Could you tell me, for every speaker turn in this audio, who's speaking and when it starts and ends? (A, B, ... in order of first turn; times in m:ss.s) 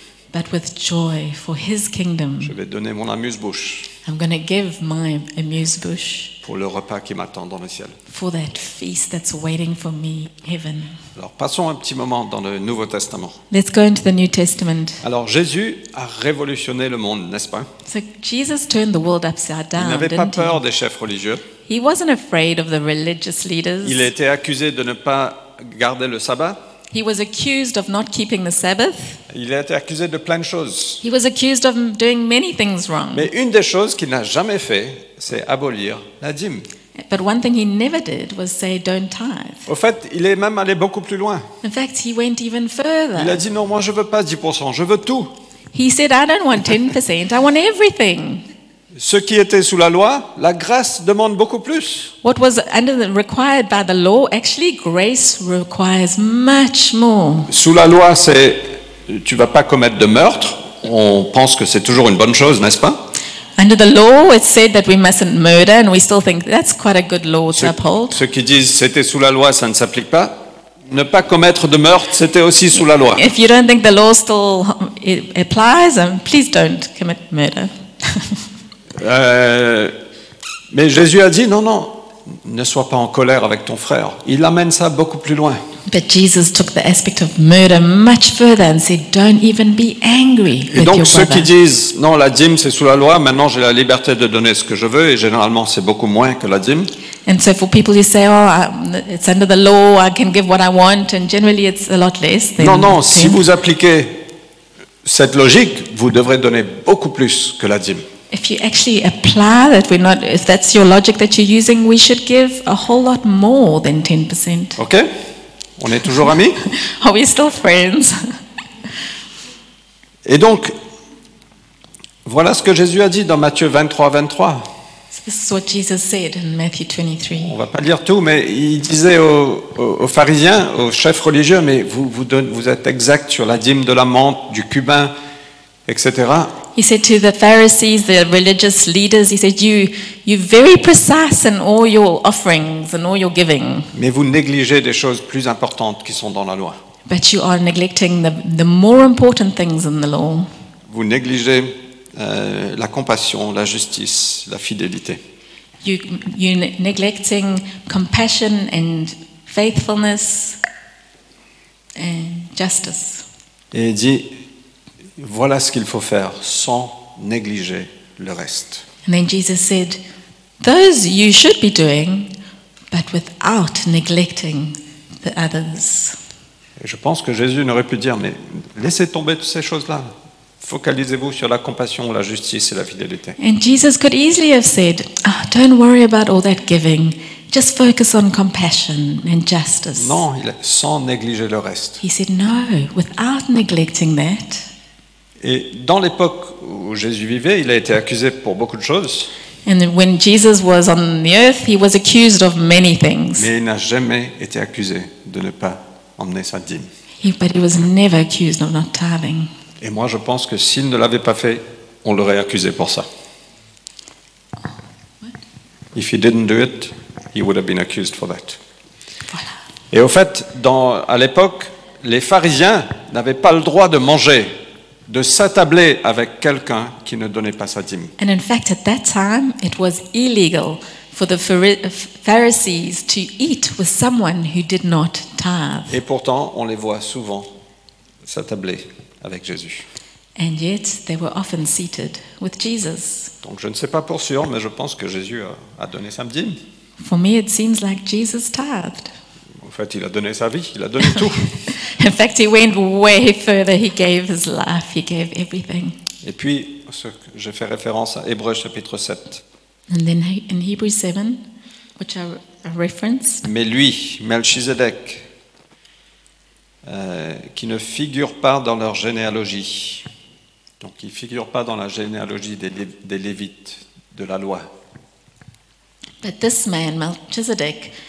0:00.3-0:02.6 A
0:02.4-0:03.9 B
0:04.0-0:06.3 A
0:06.4-0:08.0 B
0:08.1-0:11.0 A
0:11.2-0:13.4 B
0:13.5-0:15.0 A
0:15.0-0:17.7 B
0:17.9-0:20.6 A
0:19.8-0:21.4 B
0:21.7-0:24.1 A
0:23.8-0:26.6 B
0:26.9-0:29.2 A
0:29.3-0:31.0 B
0:31.0-0:33.3 A
0:33.1-0:36.7 B
0:37.0-0:39.7 A
0:39.7-0:41.5 B
0:41.6-0:43.4 A
0:43.2-0:45.3 B
0:45.7-0:48.4 A
0:48.9-0:52.1 B
0:52.2-0:57.5 A
0:57.5-1:03.0 B
1:03.6-1:08.2 A
1:07.5-1:13.3 B
1:12.8-1:18.4 A
1:19.0-1:20.0 B
1:20.7-1:25.6 B
1:25.9-1:31.5 A
1:30.7-1:36.9 B
1:37.3-1:43.4 A
1:42.6-1:44.3 B
1:45.0-1:48.1 B
1:48.3-1:54.8 A
1:54.8-1:55.1 B
1:55.8-1:56.6 B
1:56.7-1:58.3 A
2:00.2-2:00.8 B
2:02.2-2:04.7 B
2:05.1-2:07.5 A
2:07.4-2:15.1 B
2:15.9-2:16.5 B
2:16.8-2:23.9 A
2:23.9-2:26.8 B
2:27.1-2:30.5 A
2:30.9-2:35.2 B
2:35.8-2:40.6 A
2:42.0-2:43.3 A
2:43.7-2:44.4 B
2:45.2-2:48.8 B
2:49.1-2:50.0 A
2:50.6-2:52.3 A
2:52.9-2:56.2 A
2:56.8-3:03.4 B
3:03.4-3:10.2 A
3:10.0-3:12.0 B
3:12.0-3:14.7 A
3:15.4-3:19.3 B
3:19.7-3:23.5 A
3:23.4-3:26.9 B
3:27.2-3:29.5 A
3:29.8-3:33.1 B
3:36.0-3:38.6 B
3:39.9-3:48.1 B
3:48.2-3:56.0 A
3:55.9-3:57.5 B
3:58.2-3:59.9 B
4:00.4-4:03.3 A
4:03.4-4:06.6 B
4:07.0-4:09.1 A
4:09.6-4:11.5 B
4:11.2-4:16.0 A
4:16.2-4:19.4 B
4:19.9-4:21.4 A
4:22.0-4:23.4 A
4:23.4-4:25.3 B
4:26.8-4:30.1 B
4:30.8-4:34.7 B
4:36.2-4:37.9 A